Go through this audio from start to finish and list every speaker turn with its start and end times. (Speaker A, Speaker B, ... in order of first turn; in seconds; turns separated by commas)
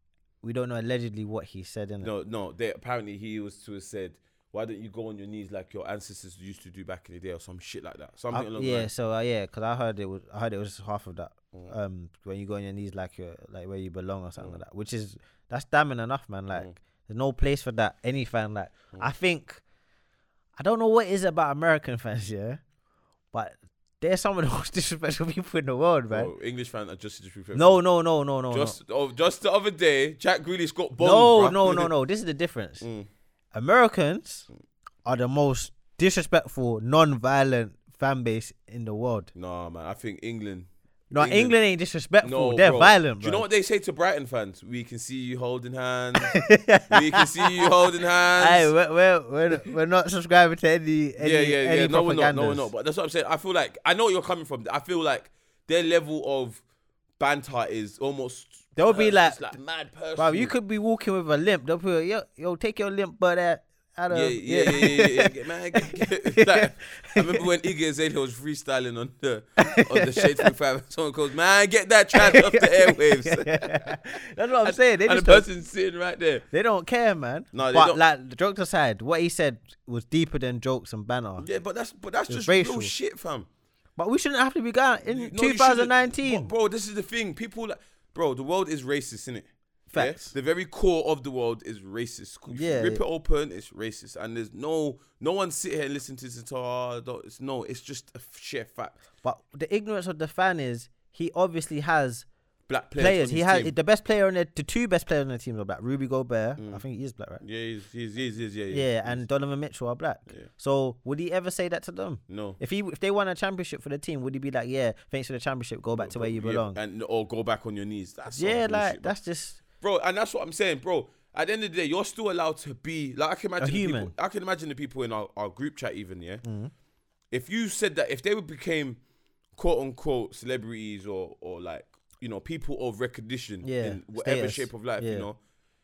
Speaker A: 0.4-2.1, Speaker B: 2.0-8.9, Speaker A: 8.3-19.6, Speaker A: 20.6-22.6, Speaker A: 23.3-26.3, Speaker B: 26.1-27.8, Speaker A: 27.5-28.8, Speaker B: 28.5-31.9, Speaker A: 30.9-32.9, Speaker B: 32.8-33.1, Speaker A: 33.5-34.5, Speaker A: 35.0-39.3, Speaker B: 39.3-41.5, Speaker A: 41.1-43.4, Speaker B: 42.2-46.4, Speaker A: 46.3-47.7, Speaker B: 46.9-48.7, Speaker A: 48.4-52.7, Speaker B: 51.2-56.6, Speaker B: 57.2-60.5, Speaker A: 58.8-59.6, Speaker A: 60.1-67.4, Speaker B: 64.1-74.0, Speaker A: 69.6-70.5, Speaker A: 72.1-75.5, Speaker B: 74.6-76.5, Speaker A: 76.5-81.5, Speaker B: 77.5-78.0, Speaker B: 81.4-83.5, Speaker A: 82.3-82.9, Speaker A: 84.0-86.5, Speaker B: 85.0-99.0, Speaker A: 89.9-90.3, Speaker A: 92.5-93.0, Speaker A: 99.2-102.2, Speaker B: 102.7-103.7, Speaker A: 103.0-107.4, Speaker B: 106.6-106.8, Speaker B: 107.4-109.2, Speaker A: 108.7-116.8, Speaker B: 112.3-112.6, Speaker B: 116.0-119.2, Speaker A: 118.3-119.6, Speaker B: 119.8-126.4, Speaker A: 123.6-124.1, Speaker A: 126.4-126.7, Speaker B: 127.3-129.0, Speaker B: 129.6-135.4, Speaker A: 133.6-135.3